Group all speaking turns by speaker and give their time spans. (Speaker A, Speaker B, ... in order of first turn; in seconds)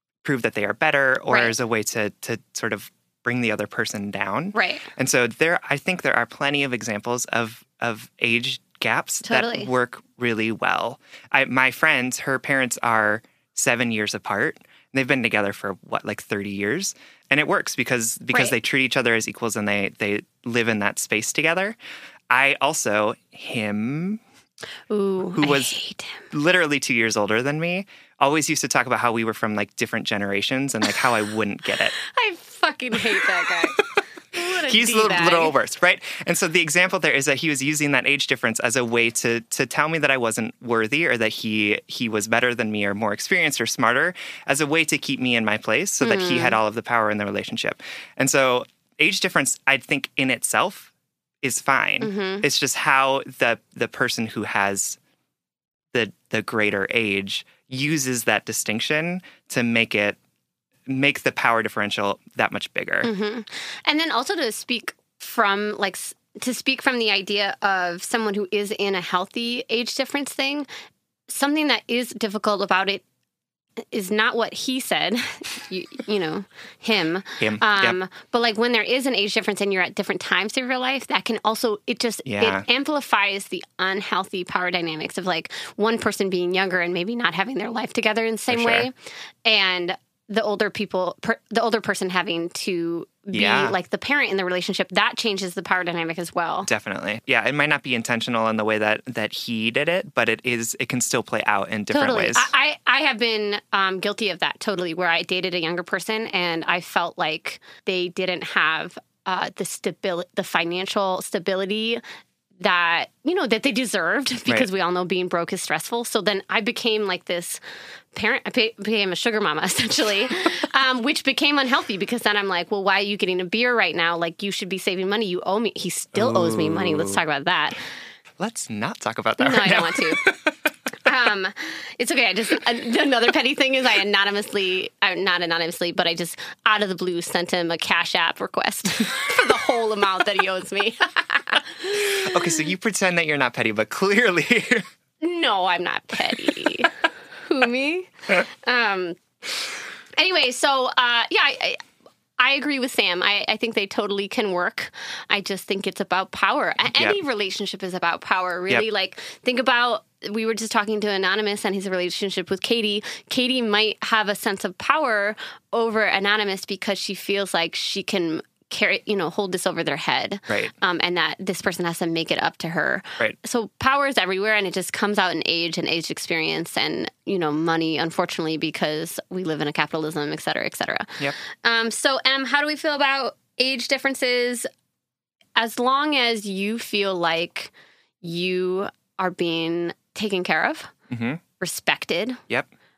Speaker A: 0.2-21.8, 22.3-24.2, 25.3-25.8, 26.3-32.0, 34.6-50.9, 51.4-55.0, 55.9-60.2, 60.9-63.1, 77.4-78.0, 82.2-82.7, 88.5-88.9, 93.3-93.8, 96.7-102.5, 126.1-127.2, 128.4-130.6, 142.0-144.9, 191.1-191.4
Speaker B: 1.3-1.5, 4.5-4.9, 9.2-9.7, 24.9-26.3, 32.0-35.5, 46.0-46.6, 52.0-52.5, 63.0-70.7, 71.3-73.0, 73.9-96.7, 101.9-112.0, 112.6-117.6, 118.1-127.8, 129.4-130.2, 131.1-142.4, 145.2-149.2, 150.2-151.8, 152.4-184.7, 185.6-190.9, 191.6-192.4